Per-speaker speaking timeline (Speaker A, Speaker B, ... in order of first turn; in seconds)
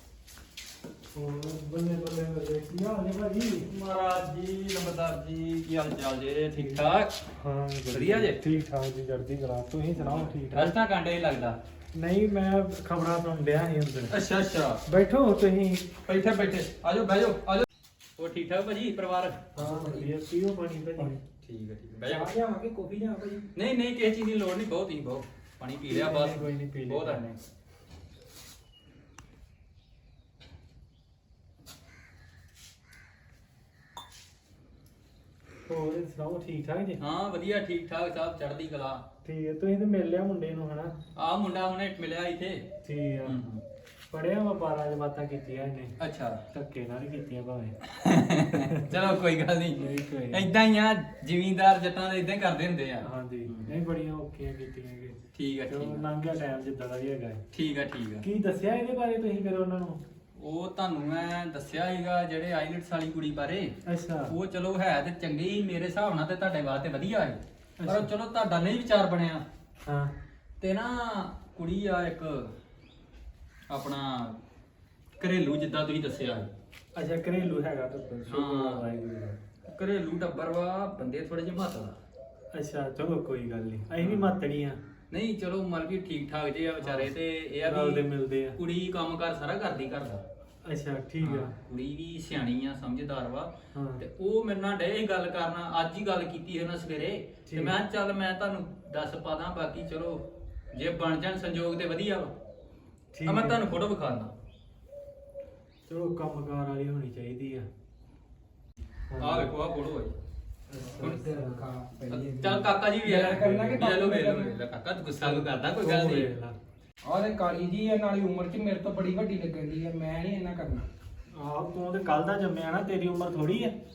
Speaker A: 1.1-3.6, 7.4-10.7, 11.9-14.1, 14.9-15.9, 19.6-21.2, 25.9-27.2, 35.7-37.0, 39.2-41.0, 42.8-43.3, 44.1-46.0, 46.5-47.8, 49.8-50.5, 53.0-55.2, 55.7-57.4, 58.2-60.0, 63.9-64.3, 67.8-68.1, 69.8-70.1, 76.9-79.4, 82.5-84.8, 86.8-87.1, 87.6-88.5, 90.6-91.5, 93.7-94.0, 97.5-97.7, 103.1-103.6, 105.9-107.7, 109.1-109.5, 110.7-111.6, 115.2-116.5, 121.3-123.7
Speaker B: 3.6-7.1, 7.9-8.4, 10.0-11.6, 14.1-14.8, 16.1-17.6, 18.2-19.4, 21.4-22.3, 23.6-27.4, 37.0-39.0, 41.1-42.6, 43.2-43.6, 46.0-46.4, 48.0-53.7, 55.3-56.0, 57.5-58.2, 60.4-63.7, 64.3-69.4, 70.6-72.5, 73.7-74.4, 75.2-76.5, 78.3-78.8, 79.7-82.0, 84.0-84.3, 85.1-90.2, 91.2-102.3, 103.2-104.3, 109.2-110.1, 111.0-111.4, 112.1-116.3
Speaker C: 19.6-20.1, 22.1-23.5, 111.3-114.5, 117.0-120.8